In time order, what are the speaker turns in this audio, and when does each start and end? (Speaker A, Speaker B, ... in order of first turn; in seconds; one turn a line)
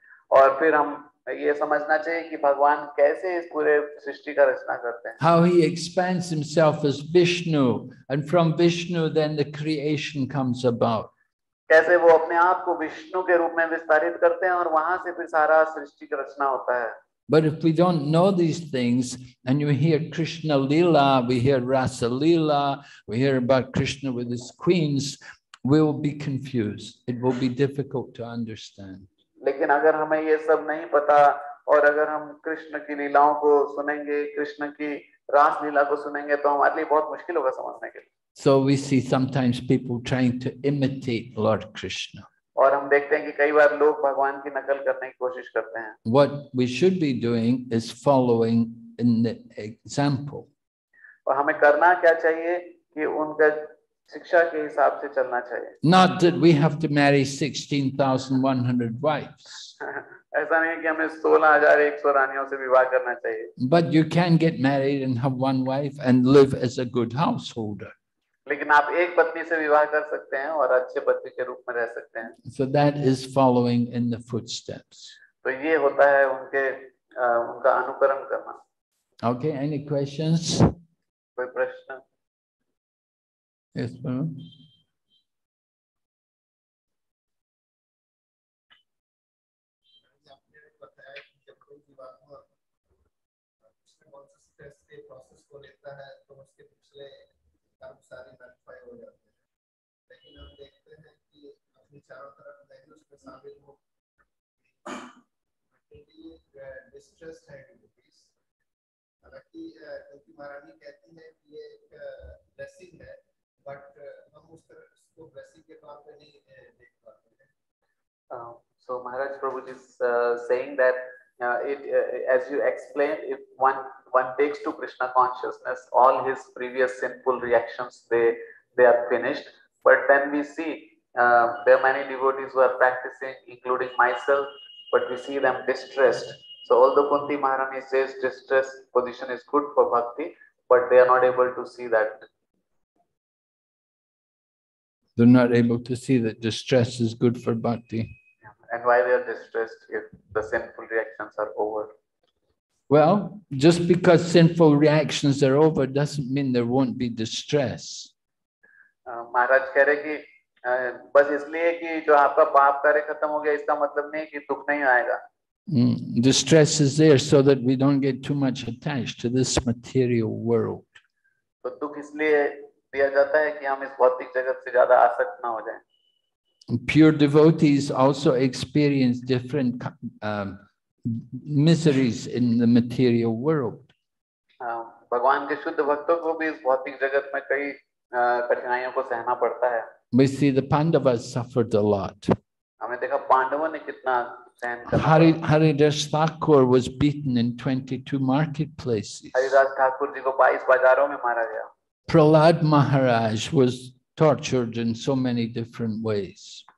Speaker A: 0.3-5.2
Speaker B: 5.2-11.1
Speaker A: 11.7-16.9
Speaker B: 17.3-29.1
Speaker A: 29.4-38.0
Speaker B: 38.3-42.3
Speaker A: 42.6-46.0
Speaker B: 46.0-50.5
Speaker A: 51.2-55.8
Speaker B: 55.8-59.7
Speaker A: 59.9-63.5
Speaker B: 63.6-67.9
Speaker A: 68.5-72.3
Speaker B: 72.5-75.2
Speaker A: 75.4-78.6
Speaker B: 79.2-80.7
Speaker A: 81.4-82.0
Speaker B: 83.7-84.5
Speaker C: 90.1-92.5
Speaker C: 93.7-97.2
Speaker C: 97.8-99.4
Speaker C: 100.1-103.8
Speaker C: 104.6-105.2
Speaker C: 105.7-108.3
Speaker C: 109.2-117.5
Speaker A: 118.3-142.3
Speaker B: 145.2-148.1
Speaker A: 148.7-151.9
Speaker B: 152.9-158.1
Speaker A: 159.1-165.2
Speaker B: 165.7-171.0
Speaker A: 171.6-175.8
Speaker B: 176.7-183.9
Speaker A: 184.6-189.8
Speaker B: 190.1-192.3
Speaker A: 192.8-195.3
Speaker B: 194.9-199.6
Speaker A: 199.3-201.7
Speaker B: 202.1-206.6